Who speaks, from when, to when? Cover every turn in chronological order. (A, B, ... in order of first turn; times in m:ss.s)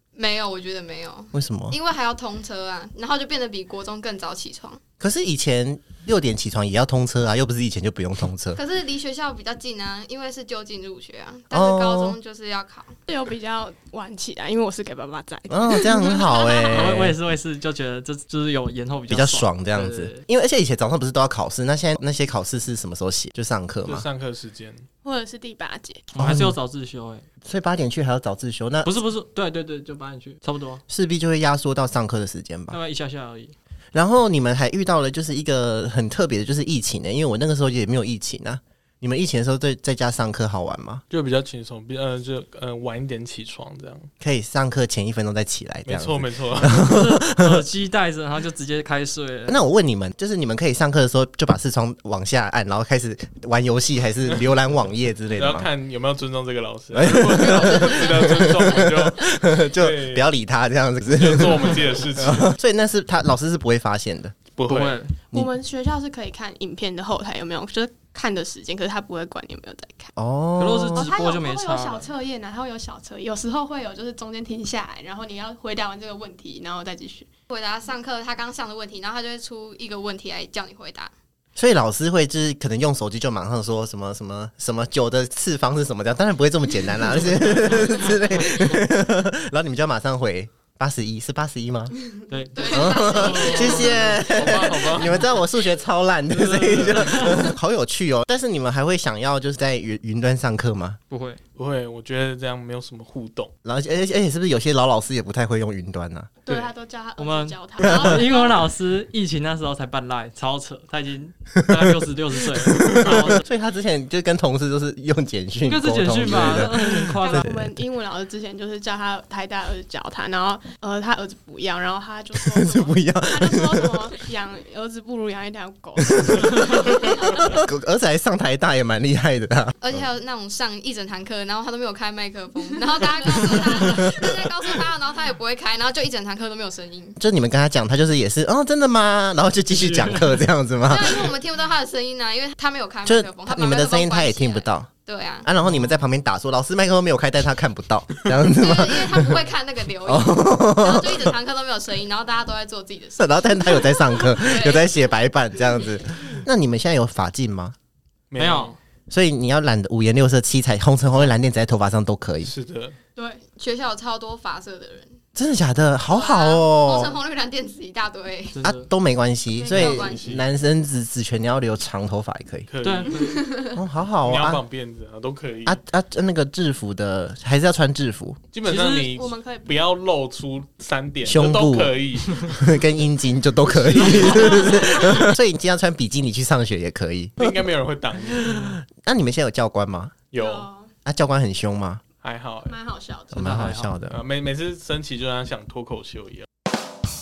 0:00.2-0:04.8 A
0:01.3-0:01.8 B
0:05.0-0:08.6 B
0:08.6-0:12.9 A
0:11.5-0:12.2 B
0:13.1-0:16.6 C
0:15.5-0:17.2 B
0:16.6-0:20.2 D
0:19.1-0:24.0 B
0:23.8-0:24.9 E
0:25.0-0:26.0 C
0:26.1-0:27.2 D
0:26.2-0:26.6 B
0:27.4-0:28.9 B
0:28.8-0:30.8 D
0:30.9-0:32.8 B
0:32.7-0:33.5 D
0:33.9-0:41.0 B
0:41.1-0:44.1 E
0:44.2-0:47.6 B
0:45.9-0:46.8 E
0:46.7-0:49.6 D
0:49.5-0:55.7 B
0:55.3-1:00.2 E
0:56.9-1:04.4 B
1:01.1-1:02.5 E
1:04.6-1:05.1 E
1:04.7-1:05.1 D
1:05.3-1:10.1 C
1:10.2-1:11.3 B
1:10.6-1:12.1 D
1:11.0-1:17.3 C
1:17.5-1:21.1 A
1:21.6-1:32.0 B
1:32.3-1:34.2 D
1:32.6-1:34.3 A
1:32.7-1:41.0 B
1:32.7-1:33.8 C
1:33.8-1:35.4 E
1:36.3-1:37.4 E
1:37.1-1:37.4 D
1:41.1-1:41.4 D
1:41.6-1:43.5 E
1:43.6-1:46.3 B
1:46.4-1:48.7 C
1:47.2-1:53.4 D
1:52.8-1:57.7 B
1:55.7-1:57.5 D
1:57.0-2:07.6 C
2:02.4-2:04.0 B
2:06.2-2:10.0 B
2:09.8-2:17.2 A
2:13.8-2:14.4 B
2:17.2-2:21.3 B
2:19.7-2:20.4 D
2:20.9-2:25.5 A
2:23.1-2:24.9 B
2:25.4-2:29.5 B
2:28.4-2:35.1 A
2:30.0-2:31.4 B
2:33.2-2:37.8 B
2:38.3-2:38.7 E
2:38.4-2:38.8 D
2:39.1-2:42.5 B
2:42.4-2:43.0 E
2:43.2-2:43.4 C
2:43.5-2:45.2 A
2:45.4-2:47.2 B
2:46.1-2:48.6 A
2:48.6-2:48.9 D
2:48.6-2:52.7 B
2:49.6-2:50.0 C
2:49.7-2:50.2 A
2:49.7-2:50.4 E
2:52.7-2:53.1 E
2:52.8-2:53.5 D
2:53.1-2:53.8 C
2:53.7-2:54.6 B
2:54.2-2:55.8 E
2:55.7-2:58.4 B
2:58.5-3:02.7 E
2:58.7-2:59.7 C
2:58.7-2:58.9 D
3:01.2-3:07.6 B
3:03.7-3:05.2 E
3:07.4-3:08.7 E
3:08.3-3:10.2 B
3:10.3-3:10.7 E
3:10.4-3:10.9 C
3:11.0-3:12.0 B
3:12.2-3:12.8 E
3:12.7-3:13.6 C
3:13.4-3:14.2 B
3:13.4-3:13.9 D
3:14.1-3:16.5 E